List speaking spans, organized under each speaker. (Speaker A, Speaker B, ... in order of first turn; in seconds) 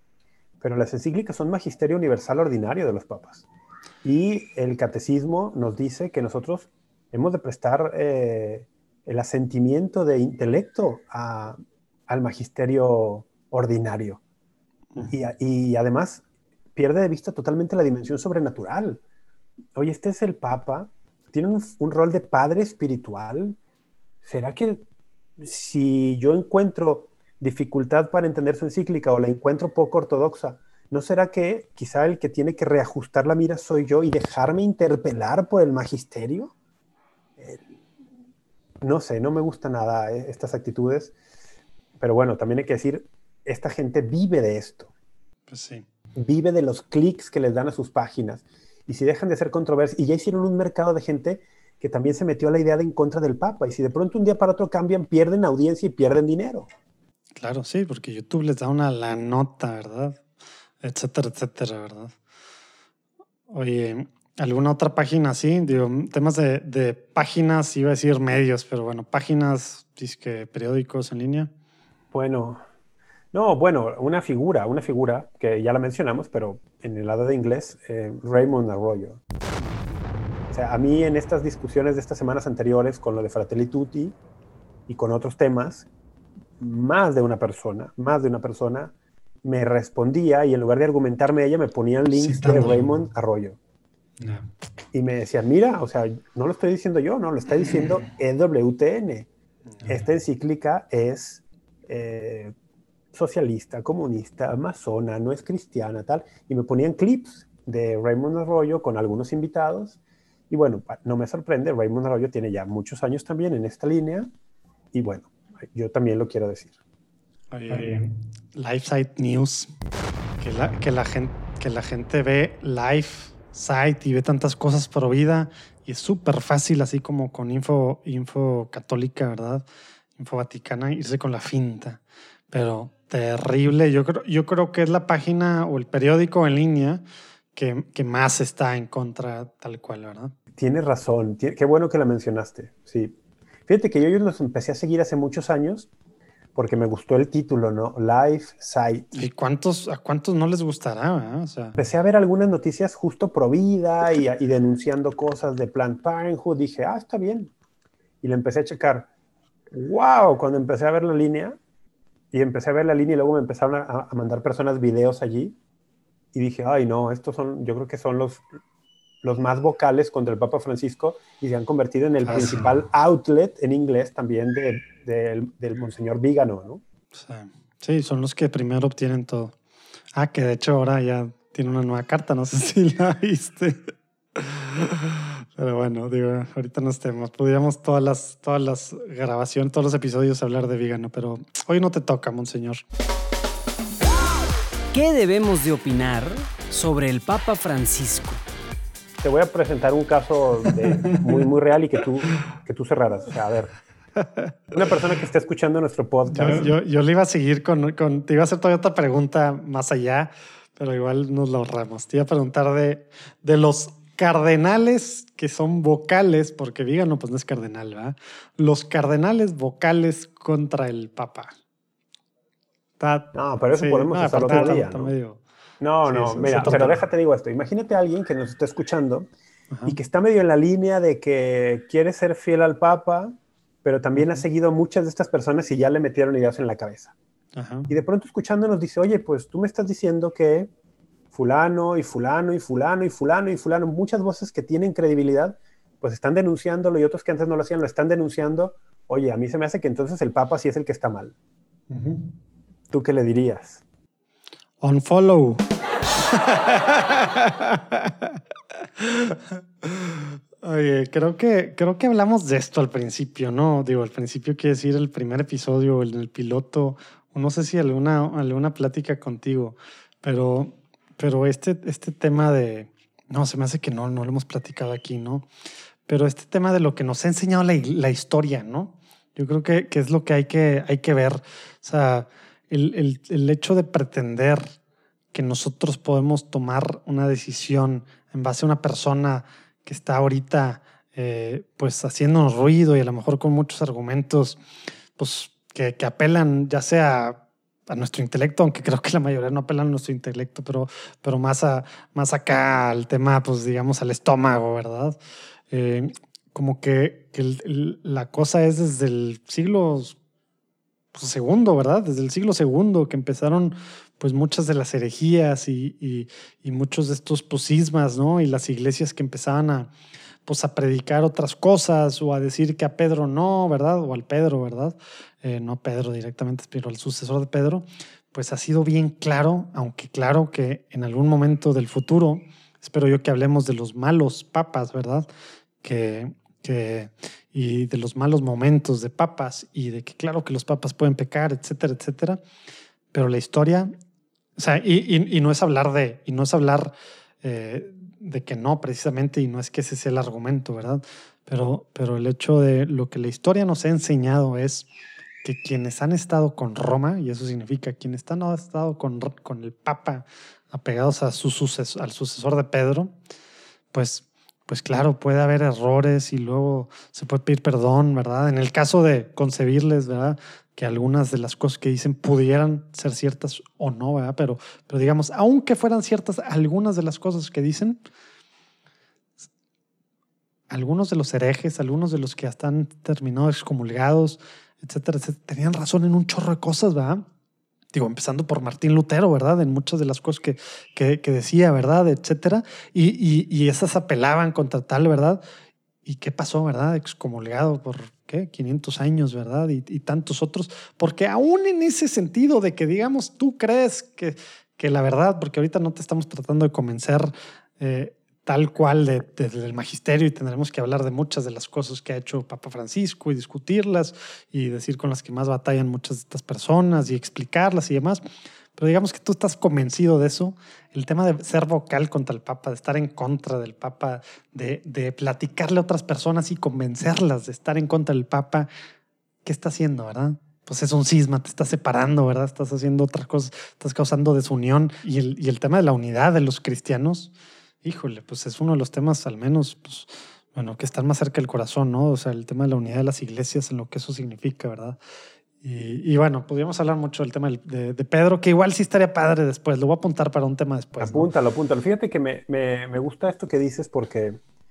Speaker A: 0.6-3.5, 4.0-11.6, 12.1-14.2, 15.1-16.2, 16.8-19.0, 19.8-23.6, 24.2-24.9, 25.4-36.5, 37.4-37.7, 38.8-41.1, 42.0-44.9, 46.1-56.7, 72.1-72.6, 73.3-79.2, 80.5-84.2, 84.9-85.9, 86.6-93.6, 94.9-99.3, 99.9-102.5, 103.1-110.0, 110.5-114.3, 114.9-116.7, 117.7-118.0, 140.6-143.2, 143.7-145.9, 146.6-149.2, 151.8-157.5, 158.2-159.1, 159.7-161.6, 162.3-165.6, 166.3-168.5, 169.2-176.8, 199.2-203.7, 204.7-206.8, 223.3-225.1, 225.8-229.3, 229.9-237.2, 237.9-240.7, 241.3-251.3, 252.9-253.8, 451.0-454.4
Speaker B: 45.5-45.9, 57.4-60.2, 60.8-62.2, 63.5-71.5, 79.6-80.0, 92.2-92.8, 94.2-94.5, 117.5-119.7, 120.4-129.6, 130.2-137.0, 137.5-140.3, 149.2-151.8, 172.2-172.8, 177.1-179.5, 180.2-192.8, 200.9-201.3, 204.2-204.5, 206.3-221.5, 223.0-225.4, 226.1-227.0, 234.2-234.4, 237.6-237.9, 251.9-252.3, 254.8-255.6, 256.3-258.4, 259.0-275.5, 276.1-284.7, 285.3-294.6, 295.2-305.2, 305.7-310.2, 311.1-319.9, 320.4-335.3, 335.8-342.4, 343.1-343.9, 344.6-354.9, 355.4-363.1, 363.9-378.0, 380.7-387.2, 387.9-395.4, 396.1-418.2, 418.8-428.7, 429.4-437.3, 437.8-445.0, 445.6-451.3
Speaker C: 194.9-198.4